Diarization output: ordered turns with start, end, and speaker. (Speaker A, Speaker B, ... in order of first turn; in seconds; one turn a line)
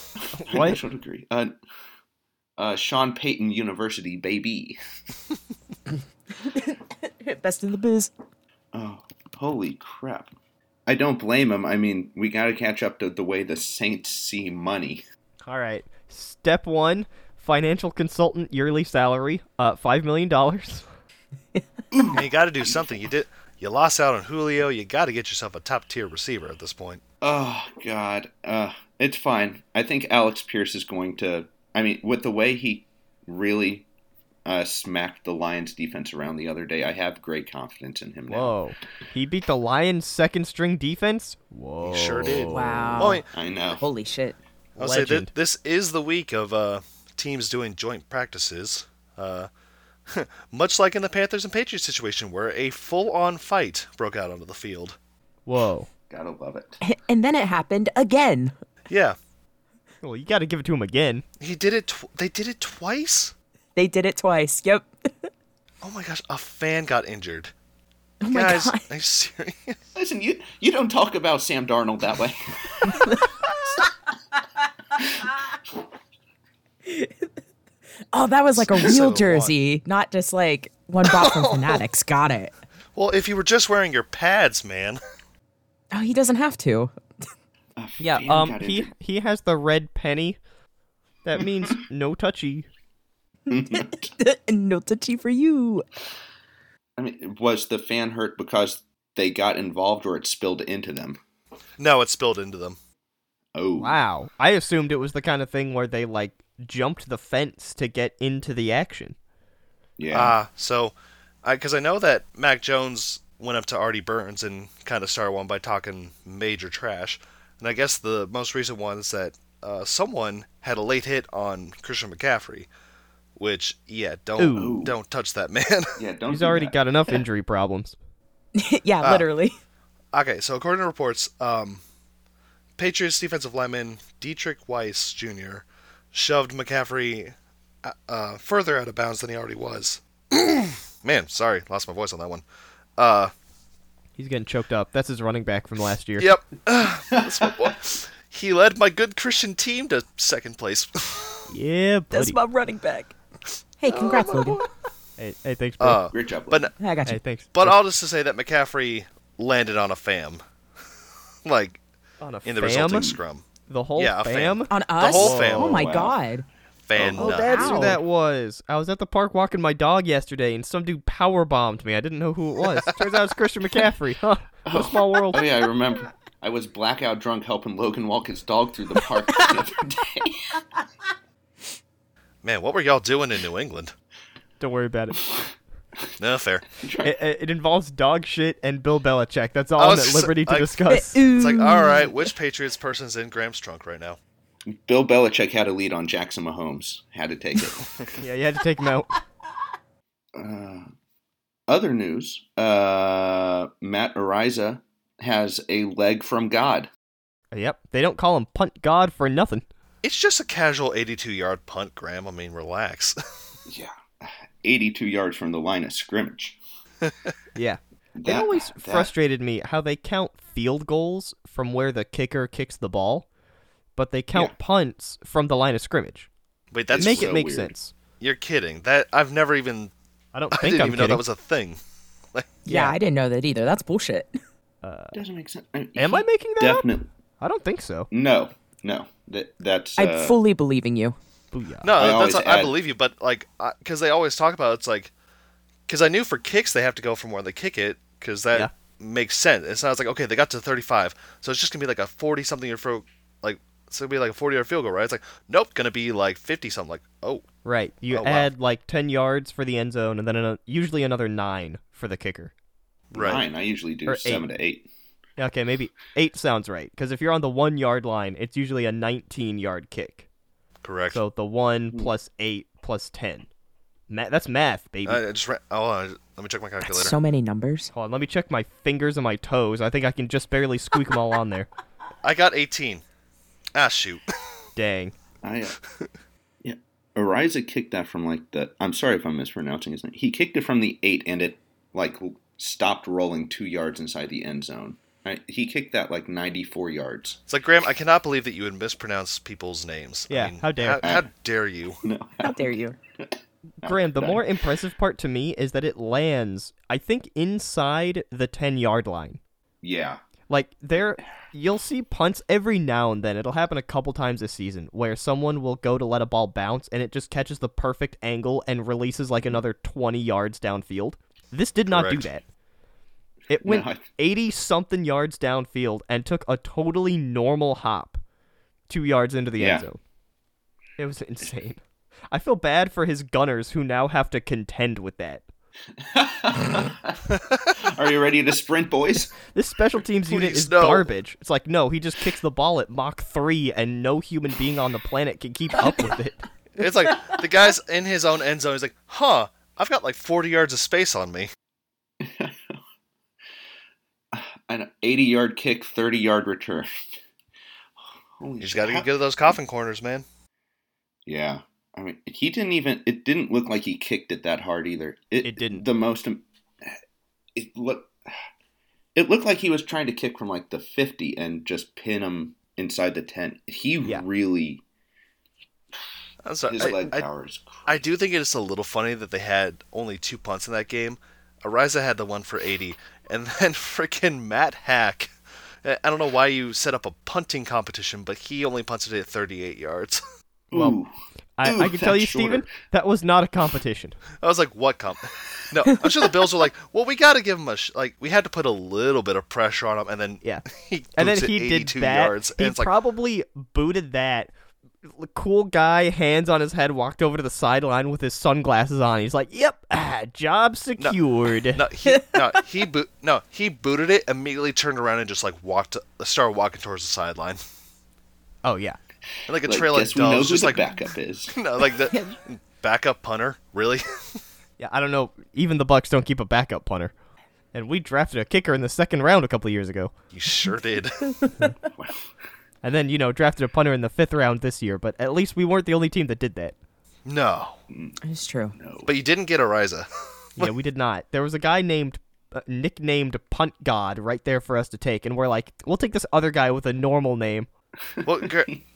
Speaker A: 0.4-0.8
Speaker B: 0.5-1.5
Speaker B: 2.6-4.8
Speaker C: 6.4-8.1
Speaker B: 8.7-10.3
Speaker B: 10.9-15.0
Speaker A: 15.4-20.9
Speaker B: 21.9-23.0
Speaker D: 22.1-27.0
Speaker B: 27.2-33.9
Speaker B: 34.5-38.6
Speaker A: 38.3-43.2
Speaker D: 41.8-43.2
Speaker C: 42.5-43.2
Speaker B: 43.3-43.8
Speaker C: 43.8-44.4
Speaker D: 44.8-49.5
Speaker A: 44.8-45.3
Speaker D: 50.1-55.0
Speaker A: 55.5-55.9
Speaker B: 56.1-56.8
Speaker C: 56.8-58.5
Speaker D: 58.9-59.2
Speaker A: 60.0-61.2
Speaker D: 61.4-63.3
Speaker C: 63.8-65.3
Speaker D: 65.8-67.5
Speaker C: 68.2-68.9
Speaker D: 68.3-69.8
Speaker B: 70.0-73.2
Speaker C: 72.9-73.2
Speaker C: 76.8-77.1
Speaker C: 78.1-82.5
Speaker D: 78.6-79.5
Speaker D: 81.0-81.8
Speaker D: 83.0-85.0
Speaker C: 85.9-86.9
Speaker B: 87.8-88.9
Speaker C: 88.0-88.2
Speaker A: 88.2-90.4
Speaker A: 91.2-92.7
Speaker B: 93.5-94.1
Speaker C: 93.7-95.9
Speaker B: 97.0-101.2
Speaker D: 101.8-102.8
Speaker B: 103.5-104.0
Speaker A: 103.8-109.2
Speaker B: 110.0-110.3
Speaker D: 110.1-122.7
Speaker D: 123.4-126.0
Speaker A: 124.4-124.8
Speaker B: 124.5-125.0
Speaker B: 126.0-127.2
Speaker A: 126.3-128.0
Speaker C: 128.6-129.6
Speaker D: 130.1-131.8
Speaker D: 132.8-142.4
Speaker D: 143.0-143.3
Speaker A: 144.2-146.3
Speaker D: 146.2-151.5
Speaker B: 147.1-147.7
Speaker A: 151.5-152.4
Speaker C: 152.1-153.1
Speaker C: 153.8-154.6
Speaker D: 153.9-154.7
Speaker A: 155.2-156.0
Speaker D: 155.8-156.7
Speaker B: 156.1-156.7
Speaker C: 156.8-157.2
Speaker A: 157.1-157.8
Speaker D: 157.5-160.4
Speaker D: 161.4-161.8
Speaker A: 162.2-163.1
Speaker D: 162.4-163.4
Speaker B: 162.9-163.2
Speaker A: 163.7-165.9
Speaker D: 164.0-165.8
Speaker C: 164.7-166.5
Speaker B: 165.6-166.2
Speaker D: 166.9-168.0
Speaker A: 167.1-175.6
Speaker C: 167.2-168.0
Speaker D: 172.8-173.1
Speaker B: 174.7-180.4
Speaker D: 182.4-183.9
Speaker A: 184.6-185.2
Speaker D: 186.2-186.7
Speaker B: 186.8-187.1
Speaker A: 187.0-191.2
Speaker D: 189.8-190.8
Speaker C: 190.9-192.3
Speaker D: 191.3-194.2
Speaker B: 194.7-197.8
Speaker A: 198.2-199.1
Speaker B: 200.3-200.9
Speaker B: 201.7-206.9
Speaker A: 207.5-209.7
Speaker D: 210.0-213.2
Speaker B: 213.7-216.6
Speaker D: 217.0-217.3
Speaker A: 217.6-223.3
Speaker B: 218.2-219.1
Speaker A: 224.0-226.3
Speaker D: 226.7-227.4
Speaker B: 226.9-227.7
Speaker A: 227.0-227.9
Speaker D: 228.2-229.9
Speaker A: 230.3-231.2
Speaker D: 230.5-231.8
Speaker A: 232.7-233.0
Speaker C: 232.7-234.3
Speaker A: 234.8-235.1
Speaker B: 235.1-237.1
Speaker A: 236.0-236.9
Speaker A: 237.4-238.1
Speaker B: 238.1-240.4
Speaker C: 240.0-241.2
Speaker A: 241.5-241.9
Speaker D: 241.8-245.1
Speaker B: 242.0-242.7
Speaker D: 245.9-257.5
Speaker A: 257.6-262.5
Speaker D: 258.1-258.5
Speaker D: 263.1-263.4
Speaker B: 263.1-264.9
Speaker A: 264.1-264.4
Speaker A: 265.4-270.2
Speaker D: 270.8-271.2
Speaker A: 271.1-273.5
Speaker A: 274.1-275.2
Speaker D: 275.1-277.1
Speaker C: 276.8-277.9
Speaker A: 277.9-281.7
Speaker D: 282.2-283.0
Speaker D: 283.8-284.2
Speaker A: 284.8-285.2
Speaker B: 285.4-285.8
Speaker B: 286.6-297.4
Speaker D: 297.5-302.0
Speaker A: 300.3-301.1
Speaker B: 301.0-301.3
Speaker B: 302.0-304.4
Speaker C: 302.4-303.0
Speaker A: 303.8-309.4
Speaker B: 309.8-310.2
Speaker A: 310.5-322.4
Speaker D: 321.9-322.3
Speaker A: 323.5-328.2
Speaker B: 323.6-324.0
Speaker A: 328.9-330.0
Speaker B: 329.6-329.9
Speaker A: 331.0-335.4
Speaker B: 336.0-339.3
Speaker D: 337.3-337.8
Speaker A: 339.5-346.5
Speaker D: 340.3-341.1
Speaker D: 346.8-351.5
Speaker B: 352.2-352.8
Speaker B: 354.3-357.1
Speaker B: 358.4-359.5
Speaker D: 358.6-360.2
Speaker B: 361.3-367.0
Speaker A: 365.4-365.9
Speaker B: 367.6-368.2
Speaker B: 369.1-374.8
Speaker D: 376.4-377.3
Speaker B: 376.7-378.0
Speaker D: 377.9-390.2
Speaker B: 390.7-391.1
Speaker A: 390.7-391.0
Speaker A: 391.6-394.2
Speaker B: 391.6-392.7
Speaker D: 394.4-402.9
Speaker A: 401.2-404.5
Speaker A: 405.0-411.8
Speaker D: 411.7-417.6
Speaker C: 412.1-412.6
Speaker A: 418.6-419.0
Speaker D: 419.5-420.9
Speaker B: 419.7-421.6
Speaker D: 421.5-424.4
Speaker A: 424.8-427.1
Speaker A: 427.7-430.1
Speaker D: 430.3-431.2
Speaker C: 431.4-431.7
Speaker A: 432.8-436.7
Speaker D: 437.3-437.8
Speaker B: 437.9-438.2
Speaker C: 438.2-438.8
Speaker B: 438.8-439.1
Speaker D: 439.1-440.7
Speaker A: 440.6-447.7
Speaker B: 448.1-448.8
Speaker D: 448.2-448.7